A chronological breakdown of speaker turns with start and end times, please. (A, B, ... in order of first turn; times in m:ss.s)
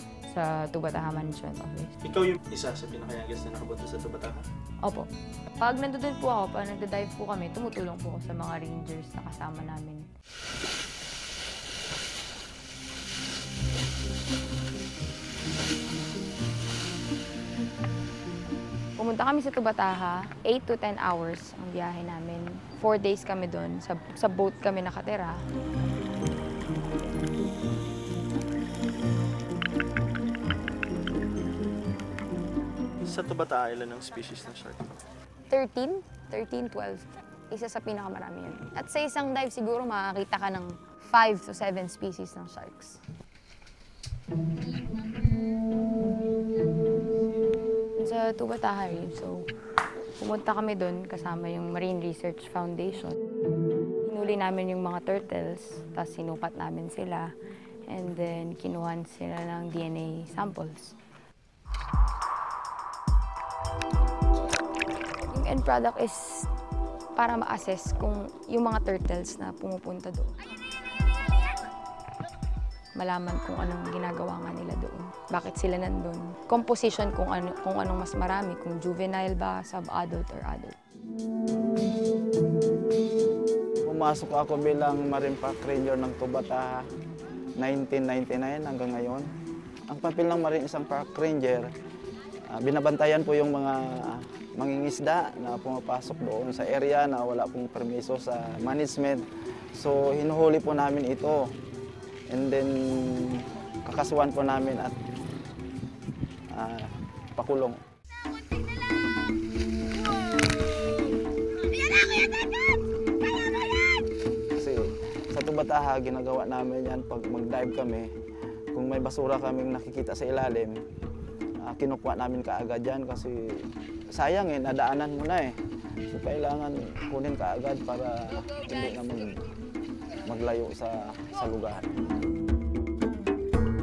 0:00.3-0:01.9 A
0:02.0-0:04.4 B
0:04.8-0:05.1 A
0:05.6-0:10.1 A
0:19.0-0:25.4 A
0:33.0-0:35.0 B
0:35.5-0:43.0 A
0:48.0-0:49.5 A
0:50.2-0:53.2 A
0:54.0-0:57.3 A
0:57.9-1:00.9 A
1:05.3-1:06.5 A
1:07.2-1:10.3 A
1:13.0-1:20.8 A
1:23.8-1:26.9 C
1:27.6-1:29.3 C
1:29.9-1:31.7 C
1:32.5-1:41.5 C
1:42.3-1:45.0 C
1:46.5-1:47.8 C
1:54.5-1:58.1 C
1:58.7-2:00.8 C
2:01.6-2:05.6 C
2:06.1-2:09.4 C
2:10.2-2:11.9 C